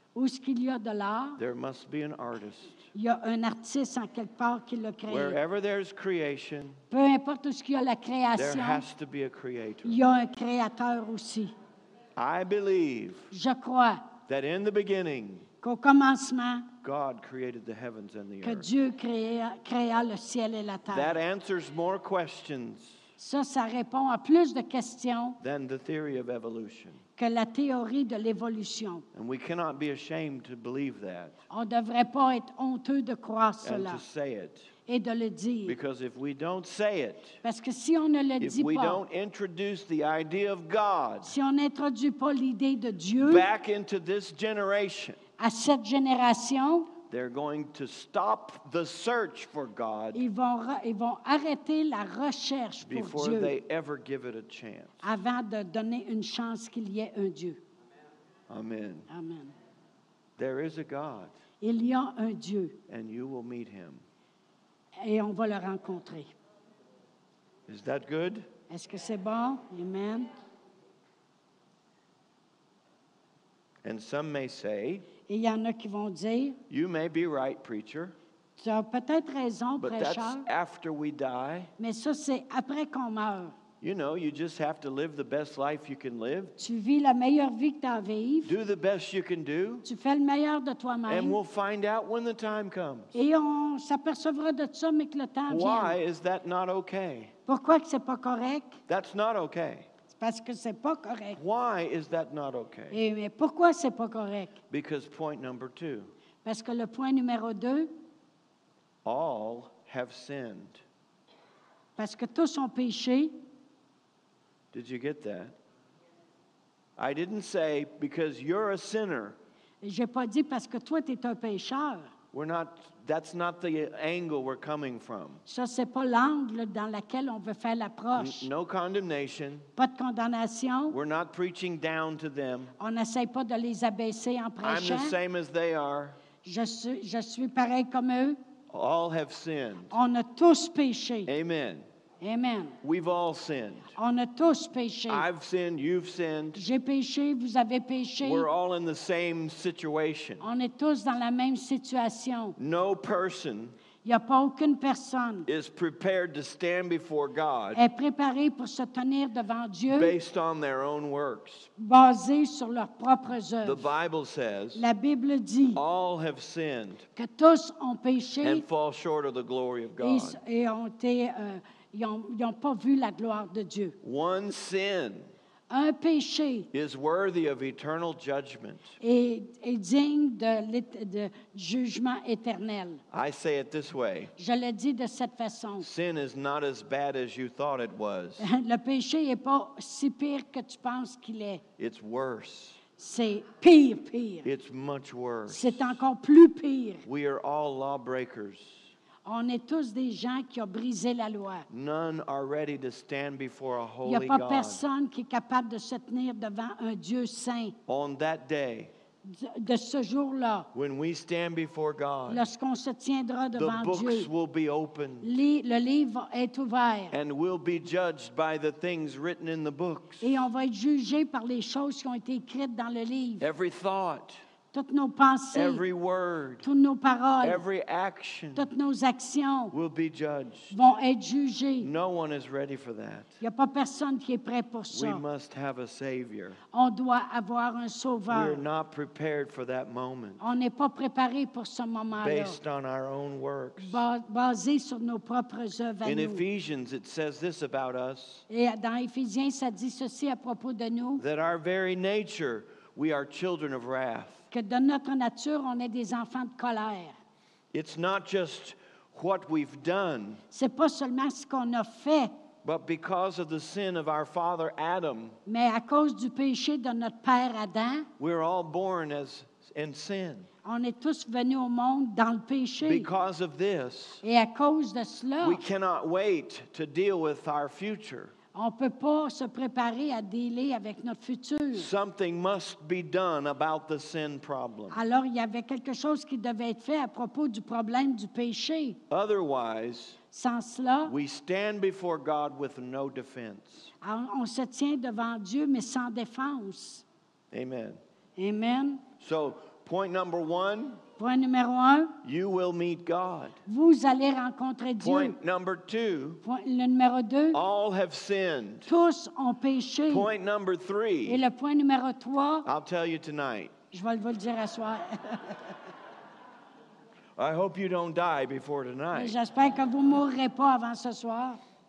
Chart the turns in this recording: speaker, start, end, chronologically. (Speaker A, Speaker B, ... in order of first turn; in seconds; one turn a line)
Speaker A: 0.1-1.4
Speaker B: 1.4-2.9
Speaker A: 2.9-5.4
Speaker B: 5.1-6.8
Speaker A: 6.9-8.8
Speaker B: 8.3-10.0
Speaker A: 9.8-11.5
Speaker B: 12.2-13.3
Speaker A: 13.3-14.1
Speaker B: 14.3-15.5
Speaker A: 15.6-16.7
Speaker B: 16.8-18.7
Speaker A: 18.4-21.2
Speaker B: 20.9-23.0
Speaker A: 23.2-25.4
Speaker B: 25.4-27.0
Speaker A: 27.2-29.1
Speaker B: 29.1-31.4
Speaker A: 31.5-34.0
Speaker B: 33.6-34.7
Speaker A: 34.9-35.8
Speaker B: 35.7-37.4
Speaker A: 37.4-39.0
Speaker B: 38.4-41.4
Speaker A: 41.2-43.5
Speaker B: 43.2-45.2
Speaker A: 45.4-47.0
Speaker B: 47.1-50.2
Speaker A: 50.1-53.5
Speaker B: 52.8-55.0
Speaker A: 55.0-57.6
Speaker B: 58.5-59.1
Speaker A: 59.1-59.5
Speaker B: 60.4-61.3
Speaker A: 61.6-62.8
Speaker B: 62.9-64.0
Speaker A: 65.0-66.3
Speaker B: 67.7-68.5
Speaker A: 68.7-70.3
Speaker B: 73.8-75.1
Speaker A: 75.3-76.6
Speaker B: 76.7-78.2
Speaker A: 78.6-80.5
Speaker B: 79.8-81.7
Speaker A: 81.8-83.6
Speaker B: 83.8-86.5
Speaker A: 86.6-88.5
Speaker B: 88.4-89.9
Speaker A: 89.8-91.4
Speaker B: 91.1-93.1
Speaker A: 93.1-96.0
Speaker B: 95.5-97.3
Speaker A: 97.5-98.8
Speaker B: 98.9-99.9
Speaker A: 100.1-101.4
Speaker B: 101.3-103.0
Speaker A: 102.9-104.6
Speaker B: 104.7-106.1
Speaker A: 106.4-107.9
Speaker B: 109.0-110.8
Speaker A: 112.0-113.3
Speaker B: 114.7-115.5
Speaker B: 117.0-119.4
Speaker A: 119.8-122.1
Speaker B: 122.3-125.4
Speaker A: 125.5-128.5
Speaker B: 128.2-129.7
Speaker A: 129.8-131.0
Speaker B: 130.9-132.8
Speaker A: 132.8-135.2
Speaker B: 134.6-136.2
Speaker A: 136.4-138.4
Speaker B: 138.7-140.0
Speaker A: 139.9-141.3
Speaker B: 141.3-141.8
Speaker A: 142.2-142.8
Speaker B: 142.8-143.9
Speaker A: 144.0-145.3
Speaker B: 145.1-146.6
Speaker A: 146.5-148.5
Speaker B: 148.2-150.5
Speaker A: 150.4-152.6
Speaker B: 152.6-153.8
Speaker A: 154.0-155.5
Speaker B: 155.5-157.8
Speaker A: 157.7-160.1
Speaker B: 159.9-161.7
Speaker A: 161.8-163.9
Speaker B: 163.6-164.8
Speaker A: 164.8-165.8
Speaker B: 165.8-167.1
Speaker A: 167.2-168.7
Speaker B: 168.4-170.4
Speaker A: 170.0-174.0
Speaker B: 174.0-175.3
Speaker A: 175.7-176.7
Speaker B: 176.7-179.0
Speaker A: 179.0-183.0
Speaker B: 183.1-184.3
Speaker A: 184.4-185.9
Speaker B: 185.8-188.5
Speaker A: 188.4-191.6
Speaker B: 191.8-192.8
Speaker A: 193.0-194.5
Speaker B: 194.4-195.9
Speaker A: 195.5-197.1
Speaker B: 197.1-198.9
Speaker A: 199.2-201.7
Speaker B: 201.7-204.8
Speaker A: 204.0-207.8
Speaker B: 207.9-208.9
Speaker A: 209.2-210.7
Speaker B: 210.7-212.5
Speaker A: 212.3-214.3
Speaker B: 213.6-215.4
Speaker A: 215.2-217.2
Speaker B: 217.1-220.5
Speaker A: 220.2-223.5
Speaker B: 223.4-224.4
Speaker A: 224.7-225.8
Speaker B: 225.5-226.7
Speaker A: 226.6-227.6
Speaker B: 227.4-228.7
Speaker A: 228.6-229.7
Speaker B: 229.7-230.8
Speaker A: 230.7-231.9
Speaker B: 231.8-233.3
Speaker A: 233.4-235.2
Speaker B: 234.9-236.6
Speaker A: 236.7-238.6
Speaker B: 238.3-240.4
Speaker A: 240.4-242.6
Speaker B: 242.1-244.1
Speaker A: 243.8-246.4
Speaker B: 246.0-248.4
Speaker A: 248.5-251.2
Speaker B: 251.2-254.5
Speaker A: 254.5-257.1
Speaker B: 257.7-260.4
Speaker A: 260.5-262.3
Speaker B: 262.6-265.4
Speaker A: 265.5-268.1
Speaker B: 268.2-270.5
Speaker A: 270.6-273.1
Speaker B: 272.8-274.2
Speaker A: 274.2-275.6
Speaker B: 275.4-278.3
Speaker A: 278.5-281.9
Speaker B: 281.7-285.0
Speaker A: 284.9-289.0
Speaker B: 289.1-290.2
Speaker A: 290.3-291.1
Speaker B: 291.1-293.9
Speaker A: 294.0-297.1
Speaker B: 297.5-298.0
Speaker A: 298.4-299.1
Speaker B: 299.2-301.0
Speaker A: 301.2-302.2
Speaker B: 302.2-303.6
Speaker A: 303.7-305.4
Speaker B: 305.0-306.4
Speaker A: 306.4-307.6
Speaker B: 307.5-308.9
Speaker A: 308.9-310.3
Speaker B: 310.1-311.4
Speaker A: 311.2-312.7
Speaker B: 312.6-313.8
Speaker A: 313.9-315.8
Speaker B: 317.4-319.4
Speaker A: 319.1-321.6